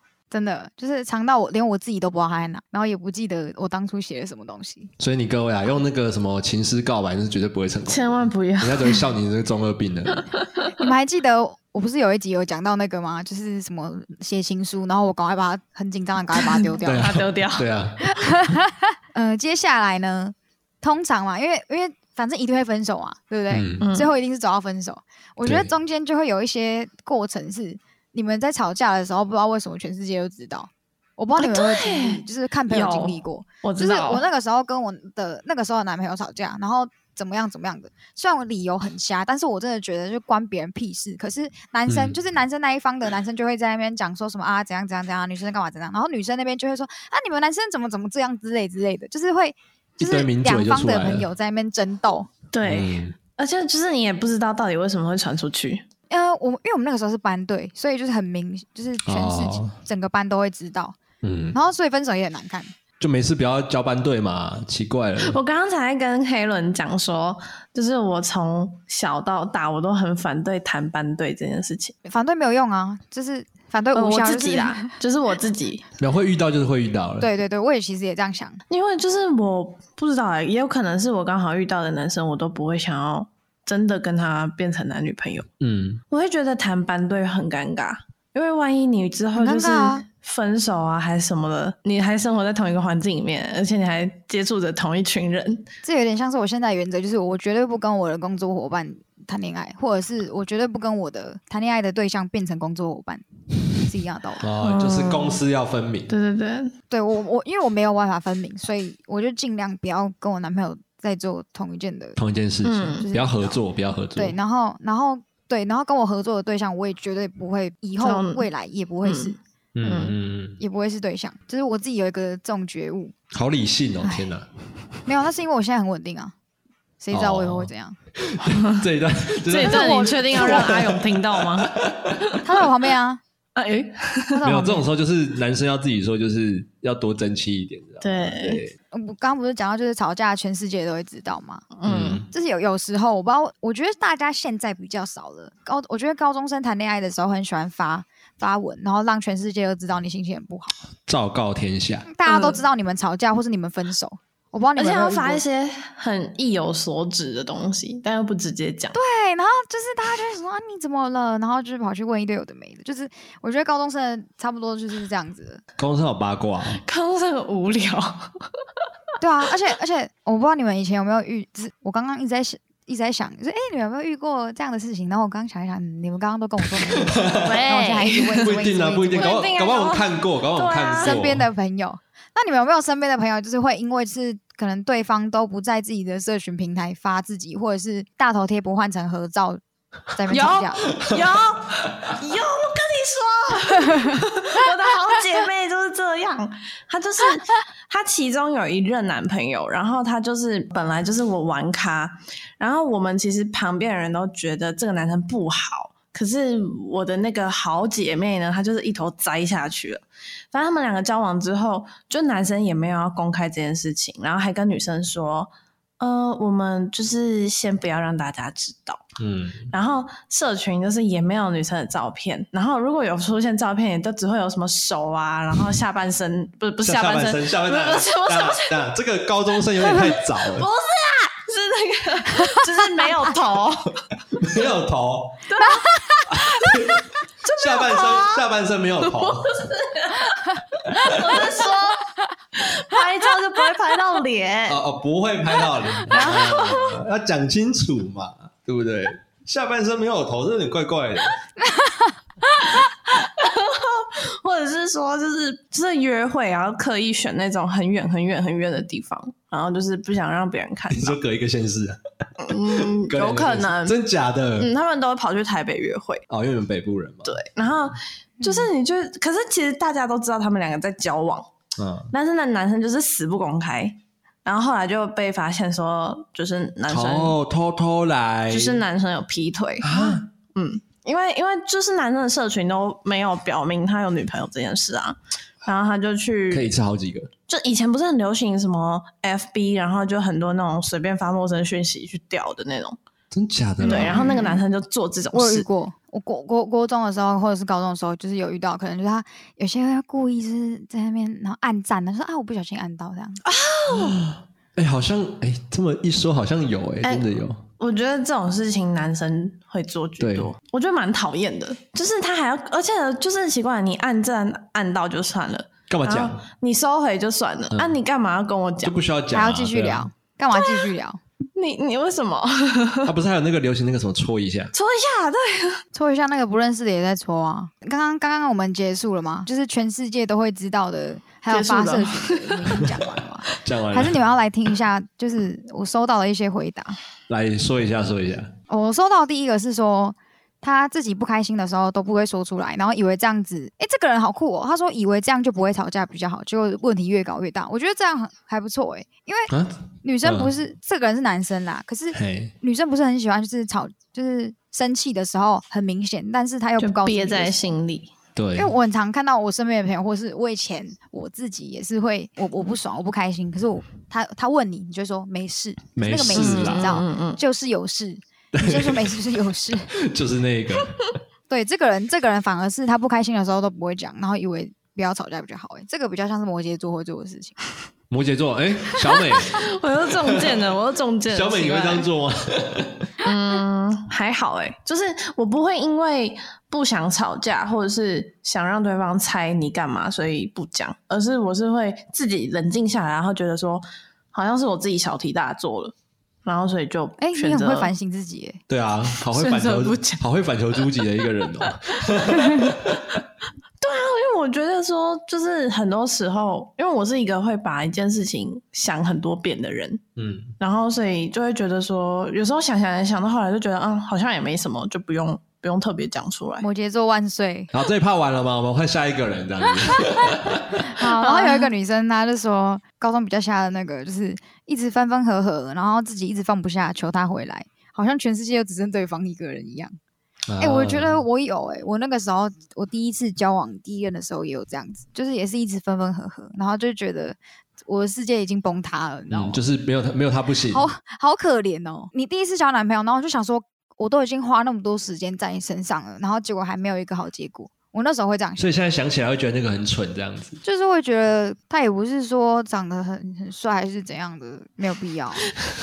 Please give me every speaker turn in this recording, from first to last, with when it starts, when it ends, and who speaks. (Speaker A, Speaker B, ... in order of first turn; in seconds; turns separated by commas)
Speaker A: 0.3-4.9, Speaker B: 5.0-10.3, Speaker C: 7.9-9.1, Speaker C: 10.2-10.7, Speaker A: 10.8-17.2, Speaker C: 16.4-17.7, Speaker B: 16.8-18.4, Speaker A: 18.0-52.3, Speaker B: 23.5-23.9, Speaker C: 23.8-24.1, Speaker B: 25.4-25.7, Speaker C: 31.4-34.2, Speaker B: 41.9-42.2, Speaker B: 50.0-51.3, Speaker C: 52.5-55.9, Speaker B: 52.6-53.1, Speaker A: 56.1-61.0, Speaker B: 59.0-59.8, Speaker B: 61.2-61.6, Speaker A: 61.5-62.7, Speaker B: 63.0-65.4, Speaker C: 65.2-72.0, Speaker A: 72.0-74.9, Speaker C: 73.9-75.8, Speaker B: 76.0-77.3, Speaker A: 77.2-78.6, Speaker C: 78.7-85.5, Speaker B: 85.6-86.0, Speaker C: 86.1-95.7, Speaker A: 89.3-90.0, Speaker A: 95.8-103.2, Speaker A: 103.8-104.5, Speaker B: 104.4-106.1, Speaker C: 104.6-105.4, Speaker C: 106.1-106.7, Speaker A: 106.9-112.2, Speaker B: 112.2-114.4, Speaker C: 112.6-113.1, Speaker A: 113.0-113.6, Speaker A: 114.2-119.4, Speaker C: 118.0-118.5, Speaker C: 119.0-120.2, Speaker B: 119.8-120.6, Speaker A: 120.6-123.1, Speaker B: 123.3-124.5, Speaker A: 125.1-126.3, Speaker A: 127.0-128.0, Speaker B: 127.1-127.7, Speaker B: 128.2-132.4, Speaker C: 128.6-128.8, Speaker C: 129.5-131.7, Speaker A: 129.6-130.7, Speaker A: 132.4-133.2, Speaker C: 133.6-134.4, Speaker A: 134.3-134.9, Speaker B: 134.4-138.7, Speaker C: 138.0-138.6, Speaker A: 138.9-141.7, Speaker C: 141.7-142.2, Speaker B: 141.8-142.3, Speaker A: 142.3-150.8, Speaker B: 151.1-152.1, Speaker A: 152.1-155.4, Speaker C: 152.3-152.6, Speaker C: 154.8-159.0, Speaker A: 158.9-165.6, Speaker B: 165.8-166.8, Speaker C: 166.8-168.4, Speaker A: 169.2-179.4, Speaker B: 177.0-177.6, Speaker C: 177.4-178.5, Speaker B: 178.3-181.5, Speaker C: 179.2-181.2, Speaker A: 181.0-190.9, Speaker C: 190.3-219.0, Speaker B: 191.0-191.2, Speaker B: 219.2-219.7, Speaker C: 219.7-228.9, Speaker B: 226.8-230.7, Speaker C: 229.8-234.1, Speaker B: 234.4-235.5, Speaker C: 235.5-236.0, Speaker A: 235.6-236.7, Speaker B: 236.3-239.7, Speaker C: 237.5-238.4, Speaker C: 239.0-240.4, Speaker B: 240.9-241.4, Speaker C: 241.0-244.8, Speaker B: 244.7-251.4, Speaker C: 246.1-246.9, Speaker A: 246.1-246.7, Speaker A: 251.6-252.8, Speaker C: 253.2-261.2, Speaker B: 260.9-262.0, Speaker C: 262.4-264.0, Speaker B: 262.5-264.7, Speaker C: 264.6-266.3, Speaker B: 266.3-267.4, Speaker C: 267.3-271.5, Speaker A: 268.4-268.7, Speaker B: 271.8-272.1, Speaker C: 272.1-277.4, Speaker B: 276.9-278.8, Speaker C: 278.5-286.7, Speaker B: 279.8-280.3, Speaker B: 286.5-287.3, Speaker C: 287.5-293.0, Speaker B: 293.3-294.4, Speaker C: 293.8-295.7, Speaker A: 293.8-294.6, Speaker A: 295.3-303.4, Speaker C: 303.4-304.2, Speaker B: 303.9-307.6, Speaker C: 307.8-319.0, Speaker B: 310.2-310.5, Speaker B: 315.9-316.4, Speaker B: 317.7-318.0, Speaker B: 318.8-320.1, Speaker A: 319.3-321.2, Speaker C: 320.6-320.9, Speaker C: 321.6-323.1, Speaker B: 323.1-324.7, Speaker C: 324.7-325.8, Speaker A: 325.9-337.0, Speaker C: 331.5-332.9, Speaker B: 333.6-334.2, Speaker B: 337.3-338.5, Speaker A: 338.7-349.5, Speaker B: 349.5-350.5, Speaker A: 350.0-357.6, Speaker B: 352.1-352.5, Speaker C: 356.8-358.1, Speaker B: 358.4-358.7, Speaker A: 358.6-369.9, Speaker B: 366.0-367.0, Speaker C: 366.3-367.4, Speaker B: 368.5-369.2, Speaker B: 369.9-371.0, Speaker A: 371.5-377.6, Speaker B: 378.1-379.7, Speaker C: 379.2-382.1, Speaker B: 380.2-380.6, Speaker B: 381.3-383.1, Speaker C: 383.2-395.9, Speaker C: 396.4-397.9, Speaker A: 397.2-398.6, Speaker B: 398.7-403.0, Speaker C: 399.2-400.2, Speaker C: 403.8-410.0, Speaker B: 410.2-410.5, Speaker C: 410.6-416.7, Speaker A: 416.6-417.7, Speaker B: 417.7-420.9, Speaker A: 420.8-429.9, Speaker C: 421.0-421.7, Speaker B: 430.5-431.2, Speaker A: 430.6-439.6, Speaker B: 439.3-440.9, Speaker A: 440.7-448.7, Speaker B: 448.6-450.6, Speaker A: 450.6-455.5